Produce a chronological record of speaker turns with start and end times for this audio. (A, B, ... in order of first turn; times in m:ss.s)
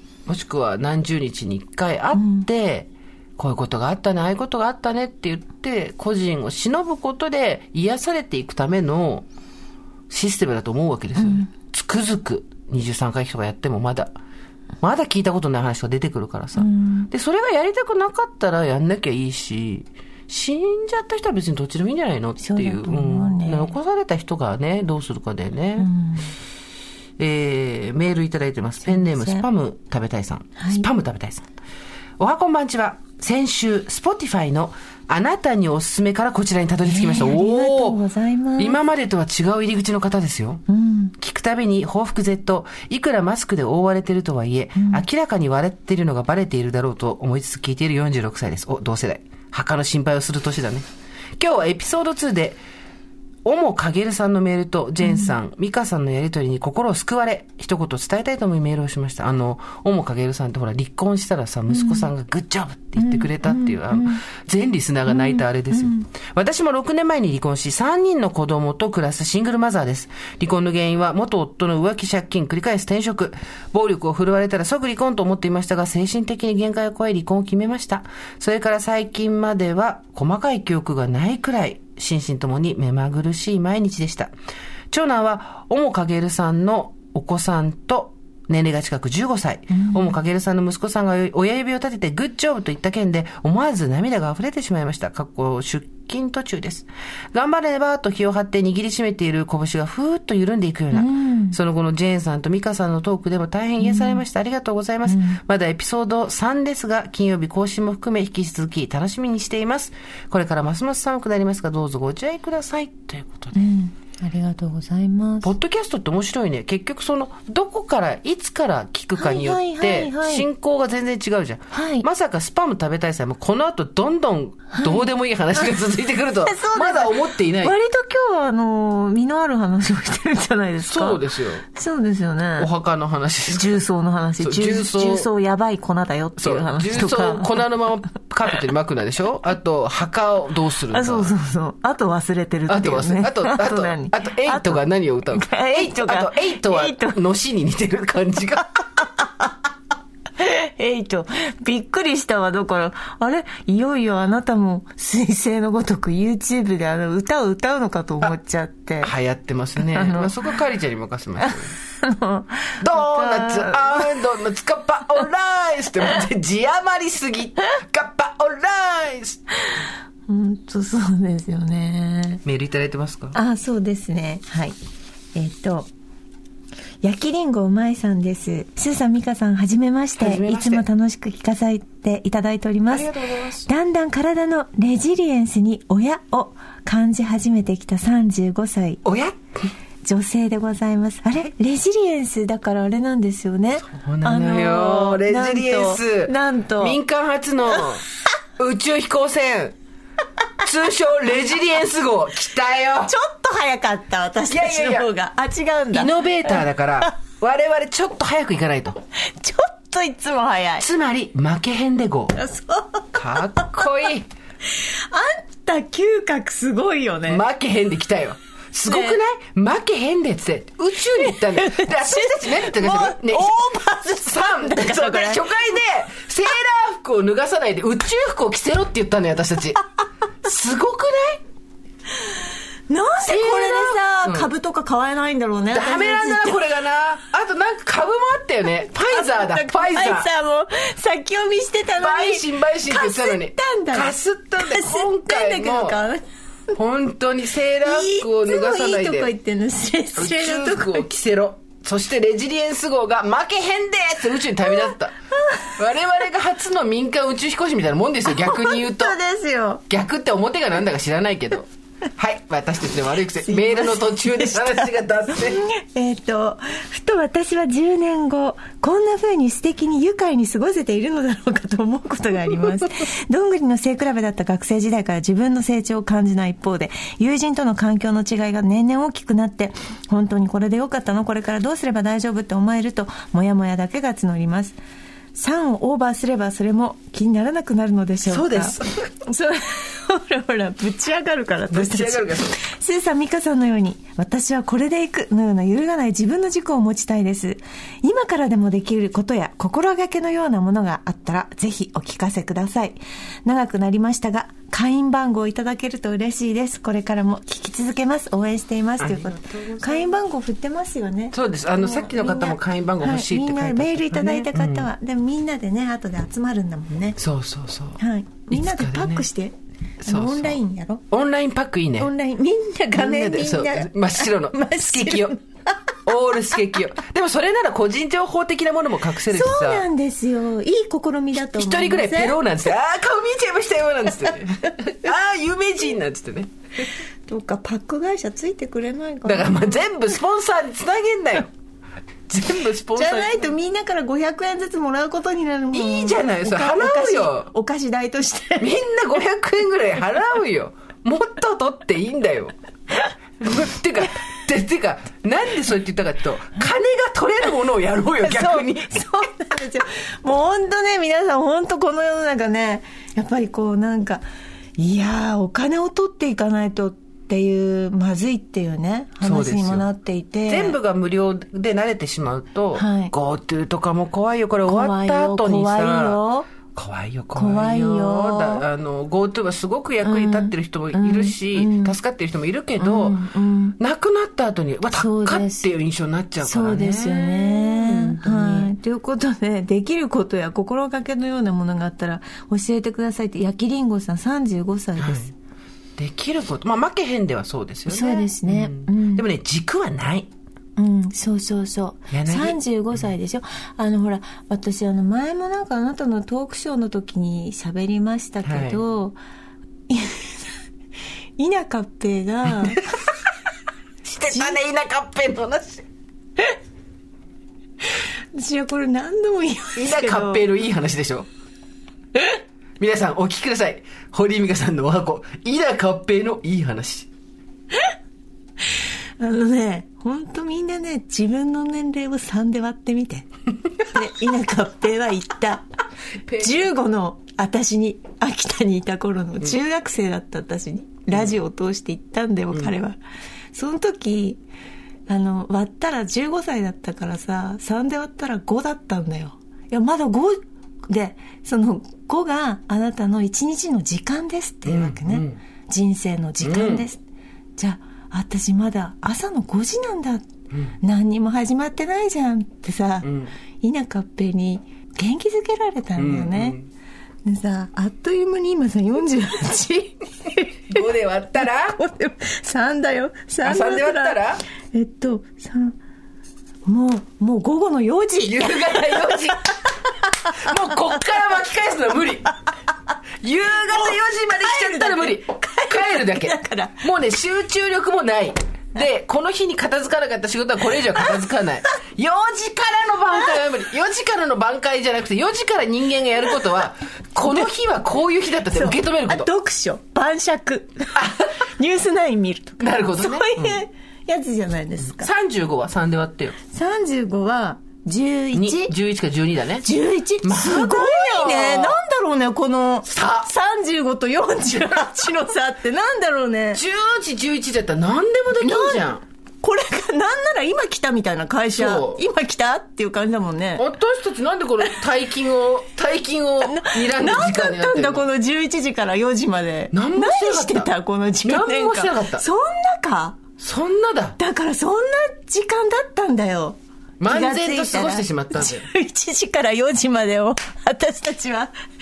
0:00.3-0:09.3 A
0:02.2-0:02.5 B
0:10.1-0:14.1 A
0:11.2-0:11.5 B
0:14.8-0:25.9 A
0:16.6-0:17.1 B
0:22.4-0:23.8 B
0:25.8-0:26.3 B
0:27.2-0:31.5 A
0:28.8-0:29.5 B
0:30.6-0:30.9 B
0:32.2-0:38.0 A
0:36.9-0:38.8 B
0:38.6-0:40.6 A
0:40.7-0:41.1 B
0:41.2-0:50.8 A
0:44.8-0:45.0 B
0:51.4-0:52.6 A
0:53.4-1:24.3 A
0:55.0-0:55.4 B
1:01.7-1:02.1 B
1:03.0-1:04.2 B
1:05.1-1:06.1 B
1:24.9-1:53.7 A
1:29.7-1:30.1 B
1:40.9-1:41.6 B
1:43.8-1:44.2 B
1:45.1-1:45.4 B
1:53.5-1:55.5 B
1:55.4-2:07.8 A
1:59.2-2:00.5 B
2:01.7-2:02.1 B
2:04.7-2:05.7 B
2:06.4-2:12.7 B
2:10.8-2:11.6 A
2:12.6-2:13.8 A
2:13.5-2:17.7 B
2:14.4-2:15.3 A
2:16.4-2:21.3 A
2:20.9-2:27.2 B
2:22.7-2:29.1 A
2:29.0-2:29.5 B
2:30.4-2:39.1 B
2:39.0-2:41.8 A
2:39.8-2:40.4 B
2:41.4-2:44.2 B
2:42.8-2:49.4 A
2:49.7-2:52.4 B
2:52.4-2:53.4 A
2:53.3-2:54.8 B
2:55.4-2:55.9 B
2:57.0-3:03.1 B
3:00.2-3:00.8 A
3:02.9-3:03.7 A
3:03.6-3:09.0 B
3:09.0-3:09.4 A
3:10.0-3:17.0 B
3:13.9-3:18.0 A
3:18.6-3:19.8 A
3:20.6-3:23.2 A
3:23.0-3:27.1 B
3:24.5-3:25.1 A
3:25.9-3:29.0 A
3:29.3-3:30.9 B
3:30.8-3:32.4 A
3:32.4-3:33.9 B
3:33.1-3:34.3 A
3:34.7-3:37.4 B
3:37.3-3:49.8 A
3:38.9-3:39.2 B
3:41.2-3:45.5 B
3:50.4-3:51.4 A
3:52.2-3:56.7 B
3:53.2-3:54.5 A
3:55.7-4:00.3 A
3:59.0-4:06.8 B
4:02.0-4:06.0 A
4:06.8-4:09.3 A
4:07.8-4:11.1 B
4:10.2-4:15.2 A
4:14.9-4:15.8 B
4:15.7-4:19.2 A
4:18.3-4:19.8 B
4:19.9-4:25.6 A
4:23.5-4:44.8 B
4:45.3-5:17.2 B
4:48.3-4:49.1 A
4:51.7-4:52.6 A
5:09.0-5:10.1 A
5:11.3-5:14.9 A
5:17.2-5:19.3 A
5:18.0-5:21.0 B
5:20.0-5:20.6 A
5:21.1-5:22.1 A
5:22.0-5:26.0 B
5:23.0-5:25.4 A
5:26.0-5:29.9 A
5:29.3-5:32.4 B
5:31.5-5:36.5 A
5:34.6-5:35.0 B
5:37.3-5:39.8 B
5:39.2-5:41.5 A
5:42.3-5:43.4 A
5:43.0-5:48.8 B
5:45.7-5:47.5 A
5:48.6-5:52.5 A
5:53.4-5:59.0 A
5:58.2-6:04.2 B
6:04.8-6:10.8 B
6:09.2-6:09.9 A
6:10.5-6:16.2 A
6:12.8-6:13.1 B
6:14.7-6:16.5 B
6:16.7-6:23.2 A
6:17.4-6:18.6 B
6:20.0-6:22.0 B
6:22.8-6:23.8 B
6:23.8-6:28.7 A
6:24.9-6:25.7 B
6:26.4-6:35.3 B
6:35.0-6:35.3 A
6:36.0-6:40.3 A
6:37.9-6:39.3 B
6:40.8-6:49.2 B
6:42.1-6:43.0 A
6:48.4-6:48.8 A
6:49.9-6:50.5 B
6:51.4-6:52.9 B
6:52.5-6:52.8 A
6:54.0-6:55.8 A
6:54.3-6:54.6 B
6:58.0-7:00.5 B
6:59.8-7:01.3 A
7:02.8-7:07.1 A
7:08.8-7:15.7 B
7:16.3-7:16.7 A
7:16.4-7:23.0 B
7:21.1-7:21.4 A
7:23.5-7:24.4 B
7:25.1-7:37.0 B
7:34.7-7:35.4 A
7:36.4-7:36.8 A
7:37.6-7:40.3 B
7:40.8-7:46.6 B
7:43.0-7:43.3 A
7:46.0-7:46.7 A
7:47.2-7:54.2 B
7:50.7-7:51.8 A
7:53.4-7:54.4 A
7:54.7-7:55.8 B
7:56.7-8:01.0 B
7:58.2-7:59.5 A
8:00.2-8:02.3 A
8:03.2-8:19.3 A
8:03.7-8:06.8 B
8:18.5-8:25.1 B
8:21.0-8:21.3 A
8:22.6-8:23.6 A
8:24.9-8:26.4 A
8:26.5-8:28.7 B
8:28.3-8:29.7 A
8:29.6-8:36.6 B
8:30.2-8:31.8 A
8:32.9-8:33.3 A
8:36.5-8:39.0 A
8:38.4-8:38.9 B
8:39.4-8:43.7 B
8:41.5-8:42.0 A
8:43.6-8:48.0 A
8:46.4-8:53.2 B
8:49.7-8:50.7 A
8:51.2-8:52.2 A
8:53.4-8:54.2 A
8:54.2-9:01.5 B
8:57.0-8:58.7 A